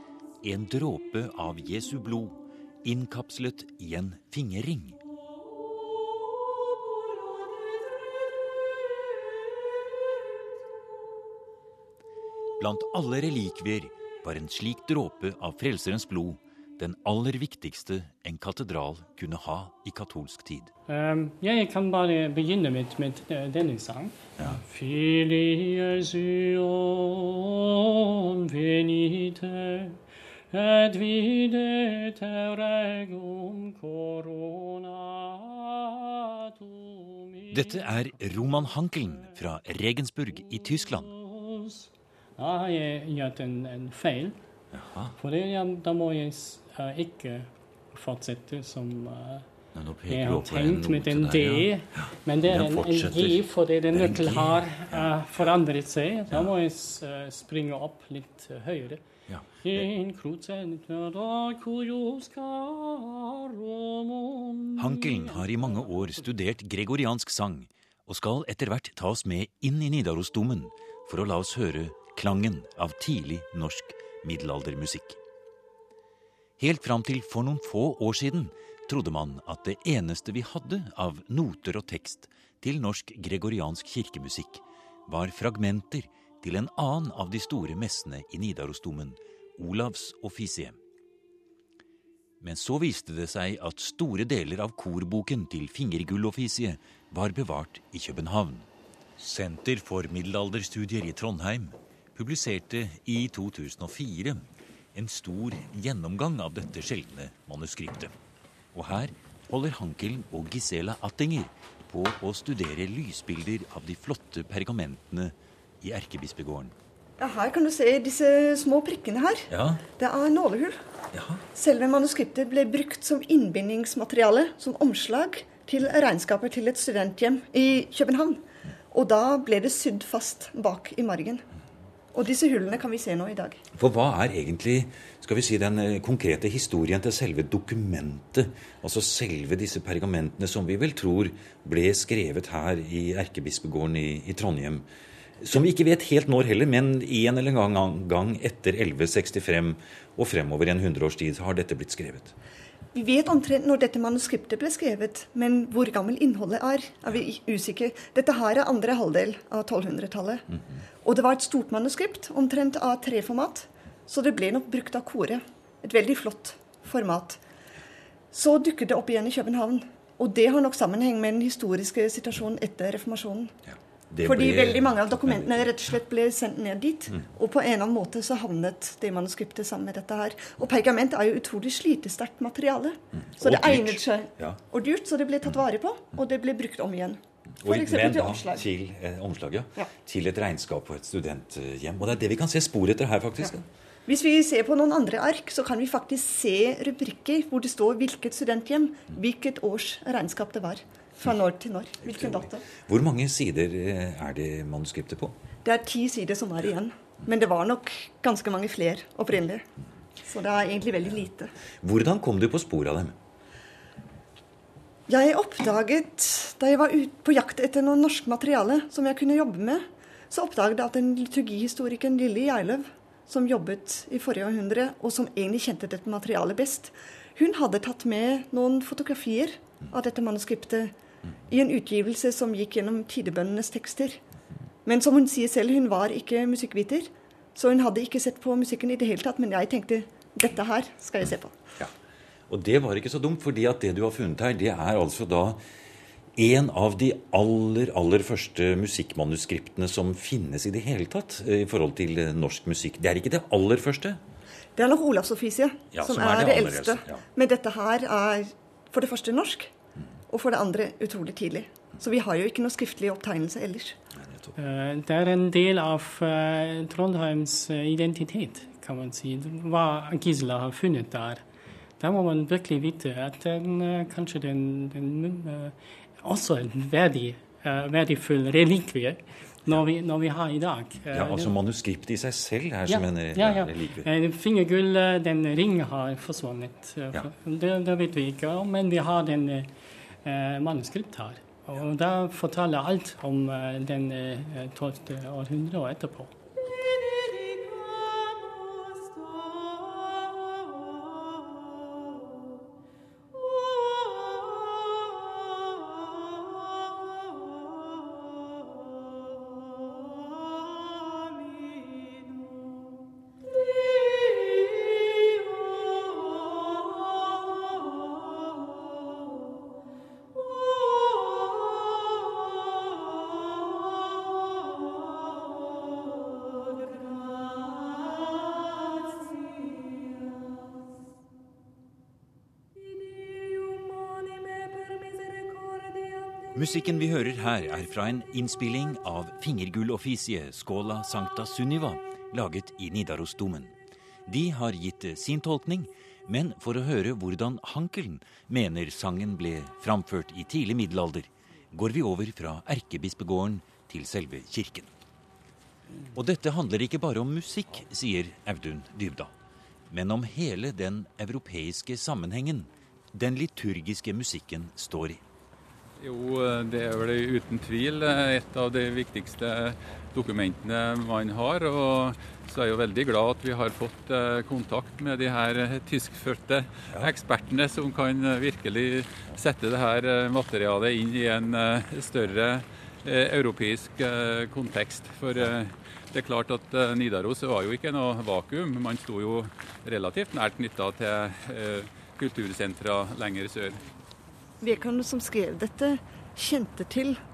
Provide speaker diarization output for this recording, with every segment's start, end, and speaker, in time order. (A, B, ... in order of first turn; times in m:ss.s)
0:00.4-0:05.0 A
0:12.6-0:20.7 A
0:20.9-0:30.0 B
0:30.5-0:38.7 B
0:37.5-0:41.1 A
0:40.6-0:44.4 B
0:44.7-0:45.2 A
0:45.2-0:49.4 B
0:49.7-0:55.4 A
0:50.1-0:59.0 B
0:59.3-0:59.8 A
0:59.6-1:06.2 B
1:04.8-1:15.2 A
1:16.6-1:30.8 A
1:32.4-1:38.7 A
1:39.2-1:44.4 A
1:44.9-1:48.1 A
1:48.7-1:56.7 A
1:57.2-2:00.8 C
1:59.5-1:59.8 A
2:01.1-2:01.4 A
2:01.5-2:11.4 C
2:12.1-2:13.6 C
2:13.7-2:24.8 A
2:25.4-2:32.3 A
2:32.9-2:40.5 C
2:41.0-2:47.4 C
2:48.3-2:53.5 C
2:54.1-2:55.7 A
2:54.2-3:08.6 C
3:03.2-3:04.6 A
3:07.6-3:13.6 A
3:14.0-3:22.6 C
3:22.0-3:25.3 A
3:25.6-3:29.6 C
3:30.2-3:31.5 C
3:31.8-3:33.2 A
3:35.1-3:50.9 C
3:51.5-3:54.2 C
3:54.8-4:01.6 C
4:02.5-4:05.6 A
4:06.4-4:14.2 A
4:14.8-4:19.7 C
4:15.9-4:17.2 A
4:20.3-4:24.0 C
4:24.2-4:24.5 A
4:24.6-4:31.4 B
4:32.0-4:41.5 B
4:41.1-4:44.1 A
4:42.9-4:49.7 B
4:50.2-4:56.3 B
5:36.5-5:43.7 A
5:44.3-5:54.9 A
5:56.1-5:59.3 A
5:59.9-6:05.2 A
6:06.0-6:33.8 D
6:34.6-6:37.2 C